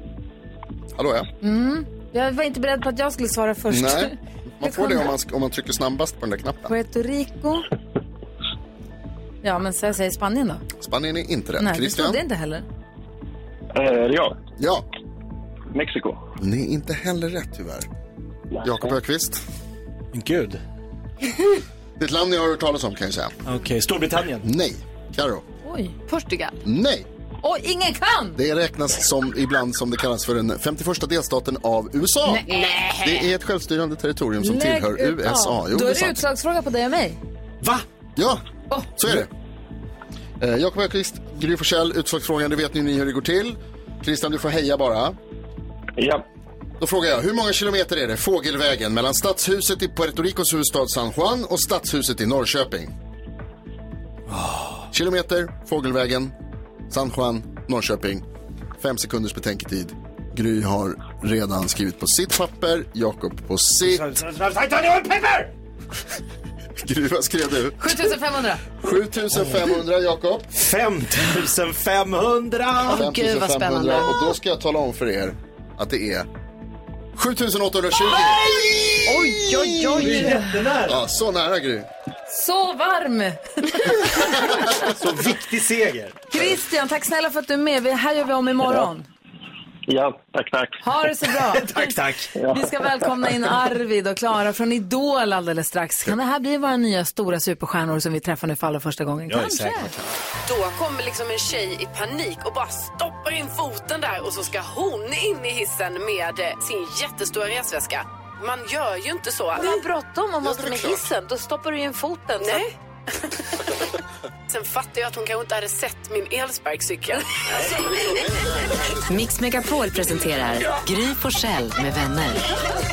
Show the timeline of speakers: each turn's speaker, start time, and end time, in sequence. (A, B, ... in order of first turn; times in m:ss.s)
0:00.9-0:01.3 A
0:01.4-0:05.1 B
0:03.7-0:06.7 A
0:06.6-0:07.6 B
0:09.4-0:10.6 B
0:10.8-0:12.2 A
0:11.6-0:12.6 B
0:13.7-0:14.4 C
0:14.6-0:14.8 A
0:15.7-0:16.2 C
0:16.4-0:17.9 A
0:18.6-0:19.4 A
0:20.1-0:20.6 D
0:22.0-0:23.4 A
0:23.4-0:24.4 D
0:24.4-0:25.4 A
0:25.6-0:26.0 B
0:26.6-0:27.0 A
0:27.4-0:28.4 B
0:28.4-0:32.5 A
0:33.0-0:36.2 A
0:34.4-0:37.2 B
0:38.2-0:38.4 A
0:39.0-0:39.3 A
0:40.4-0:45.2 A
0:46.0-0:46.2 C
0:46.8-0:52.9 A
0:54.3-0:54.9 D
0:54.9-0:56.3 A
0:56.9-0:58.2 A
0:58.8-1:04.2 A
1:03.8-1:05.5 D
1:06.8-1:08.1 A
1:07.8-1:08.6 B
1:08.8-1:10.5 A
1:10.5-1:13.0 D
1:12.8-1:16.3 A
1:13.1-1:14.1 E
1:17.2-1:20.1 A
1:19.1-1:20.5 B
1:20.0-1:21.0 D
1:20.8-1:21.9 A
1:22.3-1:24.7 B
1:24.8-1:26.6 D
1:26.3-1:29.0 B
1:29.9-1:30.8 C
1:30.8-1:39.9 B
1:31.5-1:32.3 D
1:32.4-1:32.7 C
1:39.3-1:40.0 D
1:41.5-1:49.6 E
1:49.5-1:52.6 B
1:54.5-1:57.2 E
1:59.1-2:02.4 F